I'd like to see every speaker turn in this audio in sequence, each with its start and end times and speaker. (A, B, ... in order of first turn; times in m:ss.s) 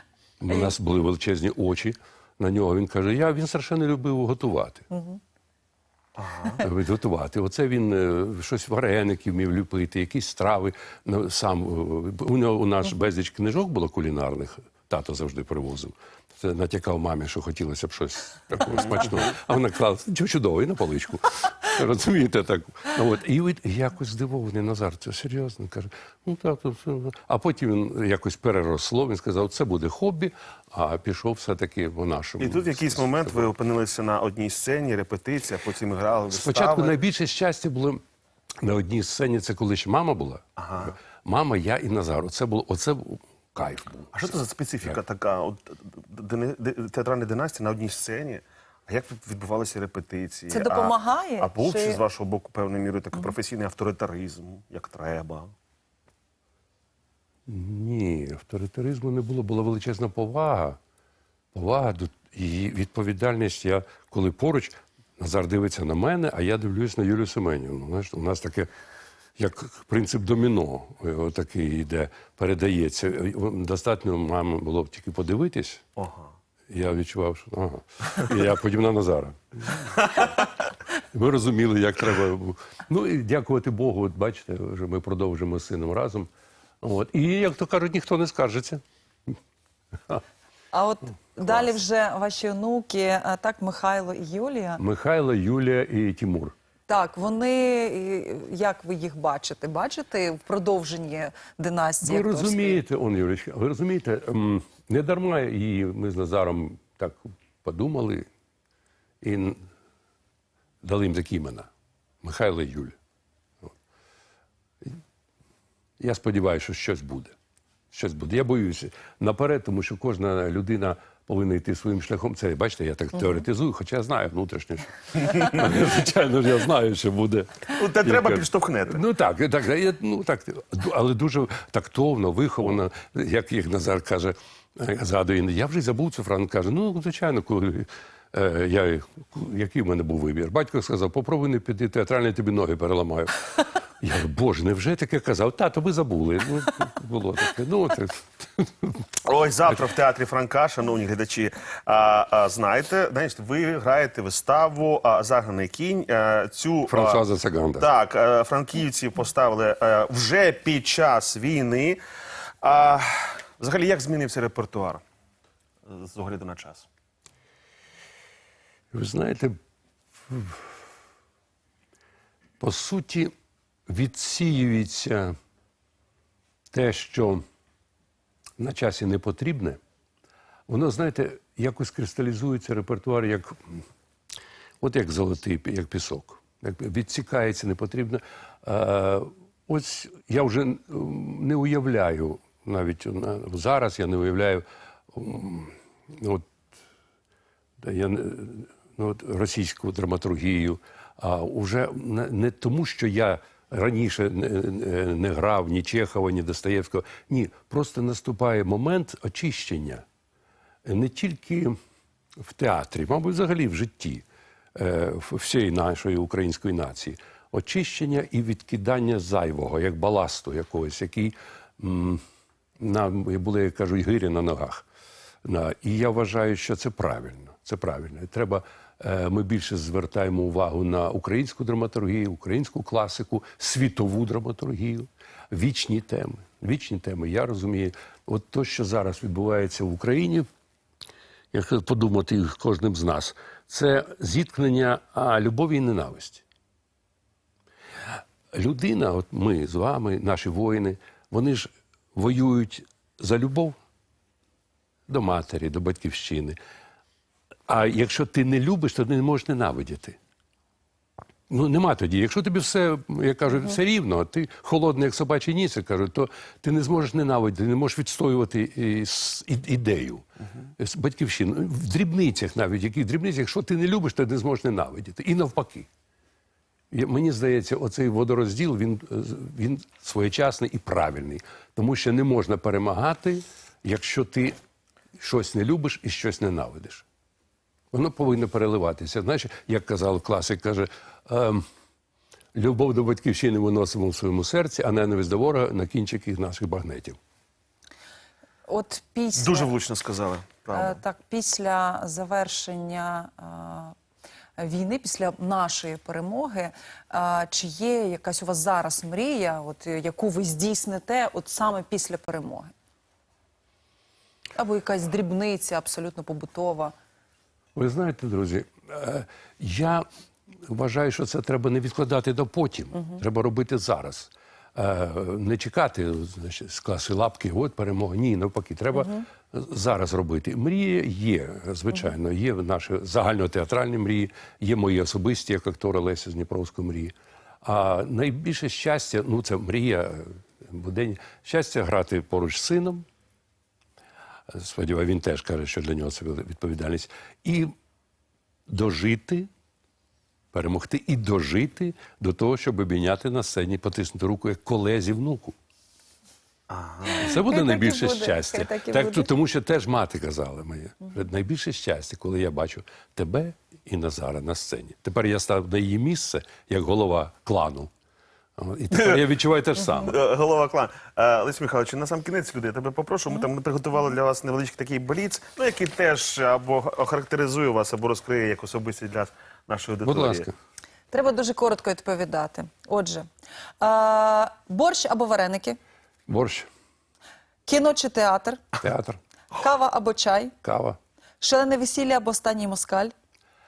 0:00.4-0:04.8 A
0:06.2-0:06.6 B
0:06.6-0:33.5 A
0:32.4-0:37.0 B
0:36.3-0:38.0 A
0:38.6-0:40.4 A
0:40.6-0:40.9 B
0:41.2-0:44.3 A
0:44.1-0:55.5 B
0:50.5-0:52.0 C
0:57.5-1:00.8 A
1:01.5-1:08.7 A
1:09.4-1:15.8 A
1:16.0-1:16.3 B
1:16.7-1:19.8 A
1:21.1-1:26.3 A
1:26.8-1:28.8 A
1:30.7-1:34.8 C
1:34.8-1:36.5 A
1:36.9-1:42.8 C
1:42.0-1:48.3 A
1:49.2-1:49.6 A
1:50.8-1:51.7 A
1:52.2-1:53.0 A
1:56.0-1:57.3 A
1:57.9-2:23.4 A
2:07.7-2:09.0 B
2:24.0-2:29.0 A
2:29.2-2:37.2 B
2:36.9-2:37.9 A
2:37.8-2:42.0 B
2:42.6-2:45.0 B
2:45.9-2:46.8 B
2:48.9-2:49.6 A
2:50.3-2:50.6 A
2:52.6-2:53.3 A
2:53.9-2:55.3 A
2:56.7-2:57.4 A
2:58.6-2:59.8 A
3:00.7-3:03.6 A
3:04.8-3:16.4 A
3:17.8-3:30.0 A
3:30.8-3:31.8 A
3:32.4-3:34.2 A
3:34.8-3:42.2 A
3:42.8-3:44.8 A
3:45.4-4:00.4 A
4:01.5-4:06.4 A
4:08.5-4:13.8 A
4:15.1-4:16.6 A
4:17.7-4:20.2 A
4:21.5-4:30.2 A
4:30.8-4:35.9 A
4:36.9-4:44.6 A
4:45.2-4:47.0 A
4:47.9-4:51.6 A
4:52.5-4:57.2 A
4:58.7-4:59.7 C
4:59.4-5:01.0 B
5:00.7-5:03.9 C
5:04.6-5:12.7 C
5:14.5-5:16.9 C
5:17.7-5:20.0 A
5:20.6-5:43.0 A
5:44.5-5:47.7 A
5:48.7-5:49.5 A
5:50.5-5:55.5 A
5:56.7-5:57.3 B
5:57.0-5:59.3 C
5:57.2-6:07.9 A
6:08.6-6:10.2 A
6:10.0-6:20.5 B
6:20.0-6:20.6 A
6:21.1-6:23.3 C
6:23.8-6:25.8 C
6:26.3-6:26.7 A
6:27.6-6:28.6 C
6:28.8-6:29.2 A
6:29.5-6:30.5 C
6:30.6-6:31.0 A
6:31.4-6:33.1 C